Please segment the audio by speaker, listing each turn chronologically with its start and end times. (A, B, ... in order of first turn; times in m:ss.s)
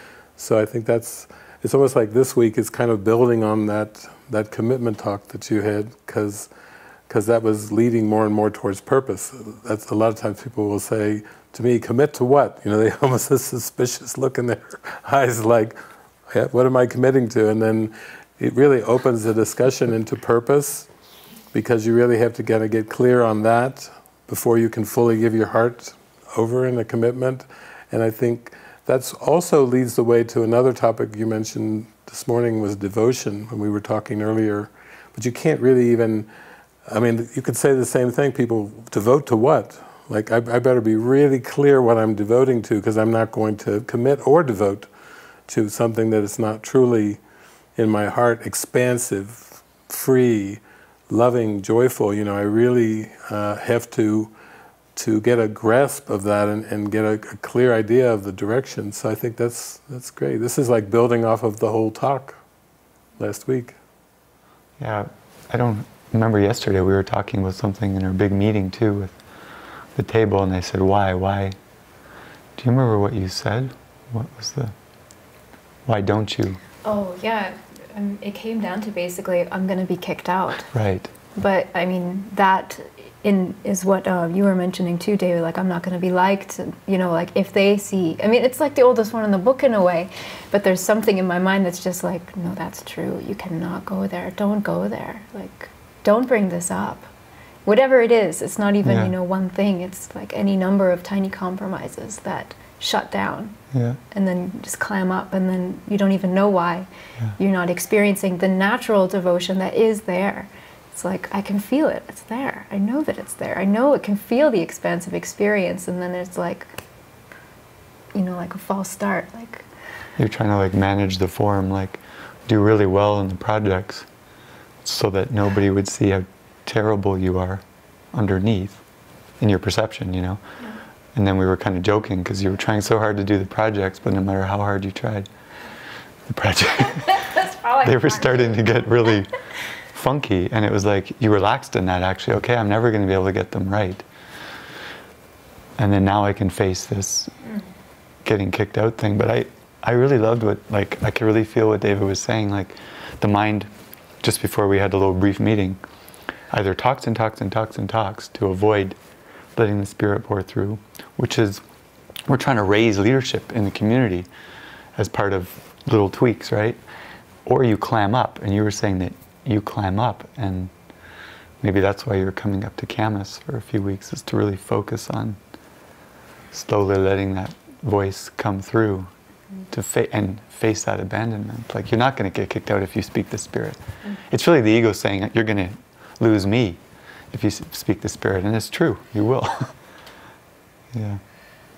0:00.4-0:06.5 A
0:07.1-0:15.8 A
0:16.3-0:20.9 A
0:21.5-0:36.3 A
0:36.8-0:44.9 A
0:45.5-0:47.2 A
0:47.8-0:54.3 A
0:54.9-1:02.4 A
1:03.2-1:03.8 A
1:04.8-1:09.1 B
1:09.9-1:11.6 B
1:12.6-1:14.7 B
1:15.8-1:16.6 B
1:16.8-1:20.7 C
1:20.7-1:21.1 B
1:21.3-1:37.1 C
1:37.6-1:43.6 C
1:38.8-1:39.1 B
1:43.7-1:44.0 B
1:44.1-1:56.7 C
1:58.1-1:59.6 C
2:00.2-2:04.0 B
2:04.8-2:07.6 B
2:08.1-2:08.8 B
2:09.4-2:10.4 B
2:11.1-2:15.3 B
2:16.3-2:19.4 B
2:16.9-2:18.8 C
2:19.9-2:24.0 B
2:25.8-2:27.3 B
2:28.2-2:33.7 B
2:34.2-2:35.8 B
2:36.5-2:39.0 B
2:39.6-2:41.6 B
2:42.3-2:44.3 B
2:45.0-2:46.8 B
2:47.4-2:50.7 B
2:51.6-2:55.4 B
2:56.5-2:59.1 B
2:59.7-3:06.8 B
3:07.3-3:09.7 B
3:10.9-3:11.2 B